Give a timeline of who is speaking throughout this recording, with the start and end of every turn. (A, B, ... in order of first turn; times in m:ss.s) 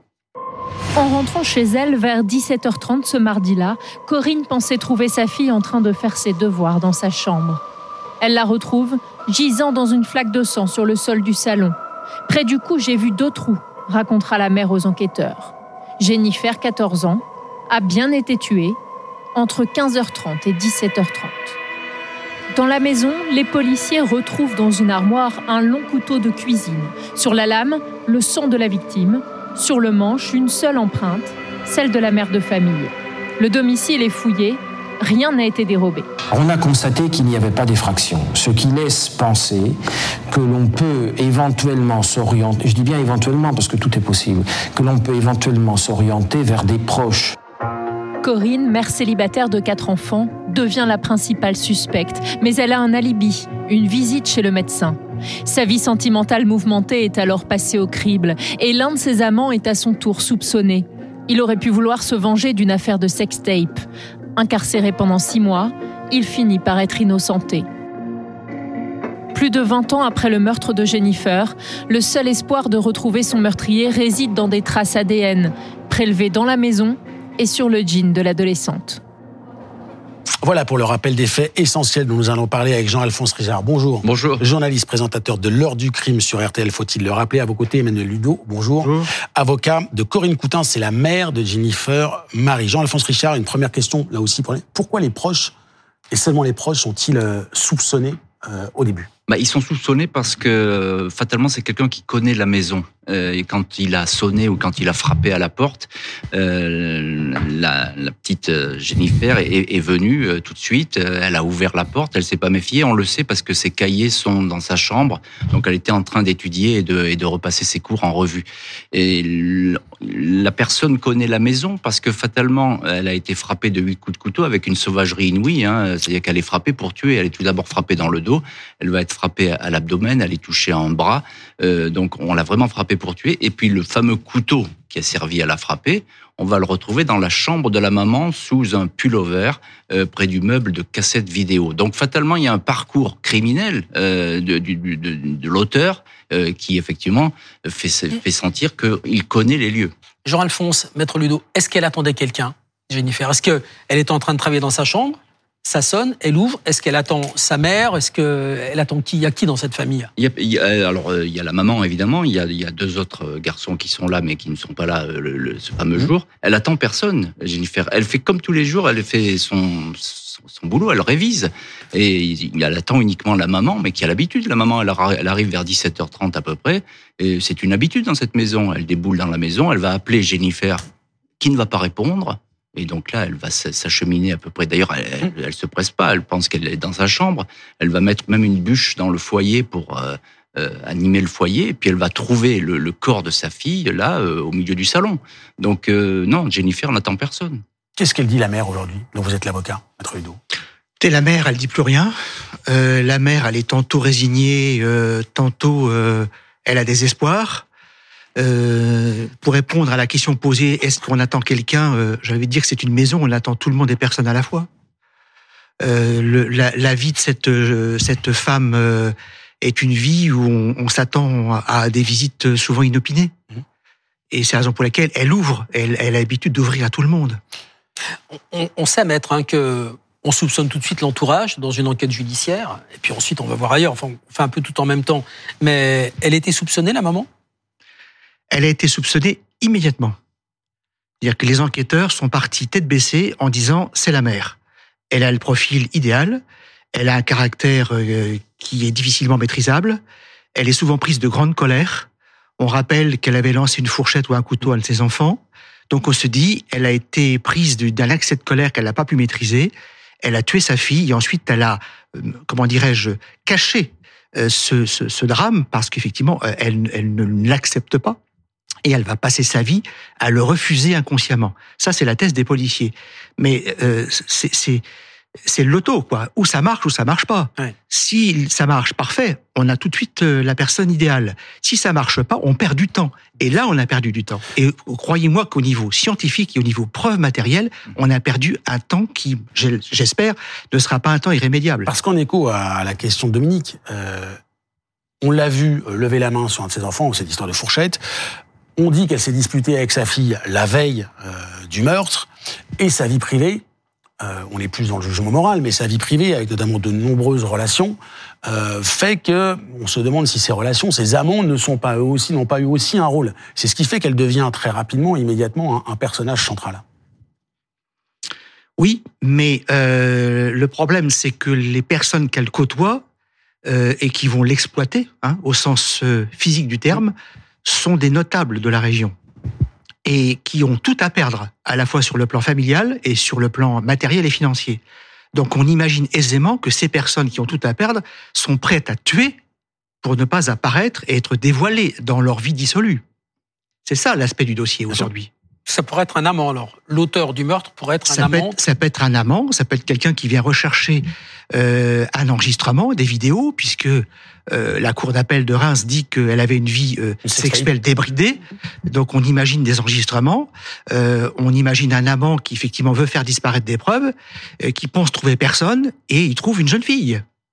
0:01.0-0:07.6 A
0:08.2-0:11.8 A
0:12.3-0:18.8 A
0:19.3-0:21.6 A
0:22.5-0:36.1 A
0:36.3-0:39.8 B
0:40.3-0:47.4 B
0:48.2-1:03.8 A
1:04.4-1:07.7 A
1:09.3-1:19.0 A
1:20.4-1:35.5 C
1:24.0-1:24.4 D
1:28.8-1:29.1 E
1:36.1-1:39.1 C
1:39.3-2:29.9 D
2:30.2-2:40.1 F
2:40.2-3:00.8 D
3:01.4-3:17.6 D
3:18.0-3:20.4 C
3:21.0-3:22.1 E
3:22.7-3:27.6 E
3:28.4-3:34.7 E
3:35.8-3:43.3 E
3:44.3-3:47.4 E
3:48.3-3:57.3 F
3:58.5-4:00.2 E
4:01.2-4:04.6 E
4:05.1-4:06.4 E
4:06.9-4:10.0 E
4:10.6-4:12.1 E
4:12.6-4:28.2 E
4:28.8-4:34.8 E
4:35.5-4:51.9 E
4:51.9-4:54.4 C
4:55.2-4:58.0 C
4:58.8-5:03.6 C
5:04.2-5:16.8 C
5:18.8-5:23.0 E
5:23.7-5:27.1 E
5:27.6-5:29.1 E
5:30.0-5:34.8 E
5:35.3-5:39.4 E
5:40.0-5:43.0 E
5:43.9-5:45.3 E
5:45.7-5:48.6 F
5:48.1-6:07.2 E
5:57.2-5:57.7 C